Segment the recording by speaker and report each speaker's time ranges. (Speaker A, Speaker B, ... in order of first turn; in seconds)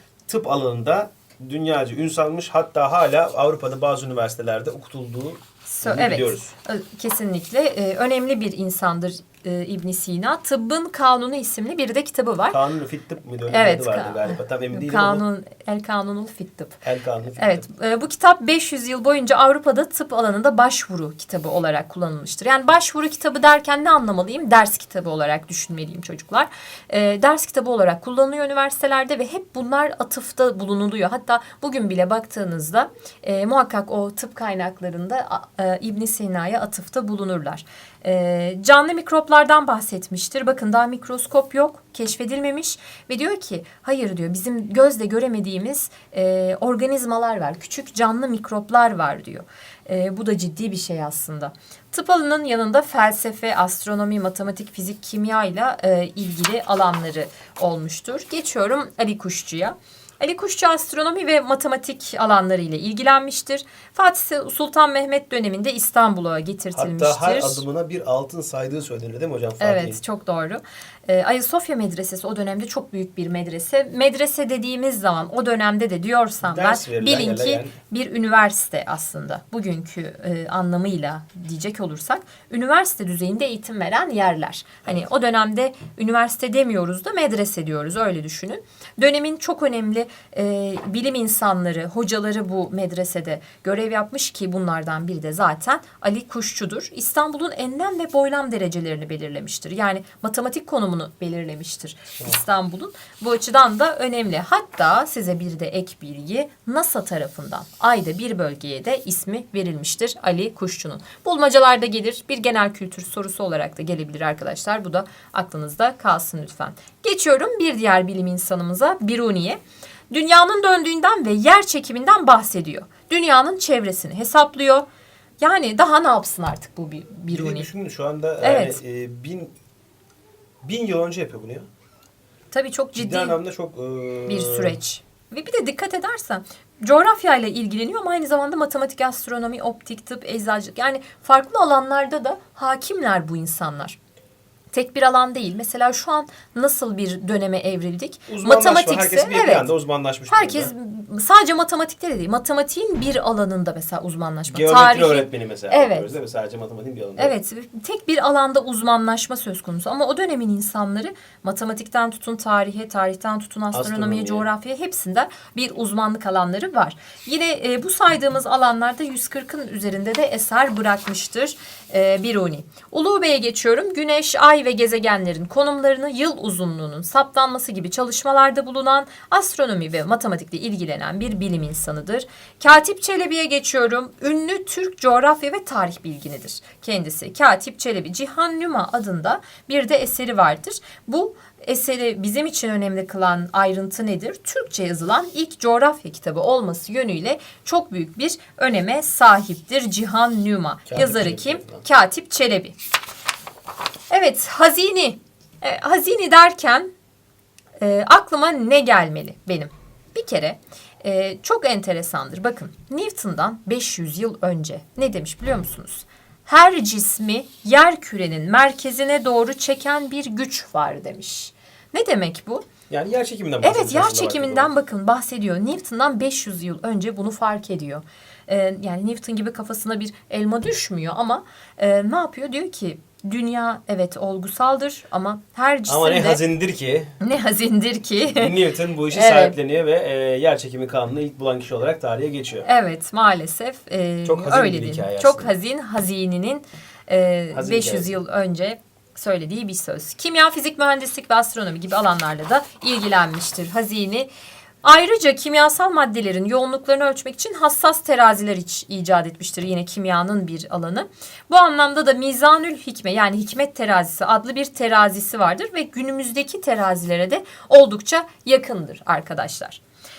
Speaker A: 0.3-6.5, 12.5-15.2, 16.8-17.7, 66.7-70.0, 76.4-77.8, 127.3-129.5, 130.6-131.7, 133.0-134.8, 148.3-150.7, 154.5-157.3, 163.7-164.5, 200.9-201.8, 222.9-224.7, 235.9-237.1, 238.3-242.7, 244.2-245.5, 247.5-248.1
Speaker B: 5.7-12.6, 13.5-16.8, 17.4-67.6, 69.6-124.9, 125.4-127.7, 128.4-128.8, 132.5-133.4, 134.3-144.0, 144.7-149.7, 150.3-156.1, 157.2-202.8, 204.1-206.9, 207.8-222.7, 223.6-236.4, 237.2-238.6, 239.1-239.6, 242.6-254.3, 254.8-269.8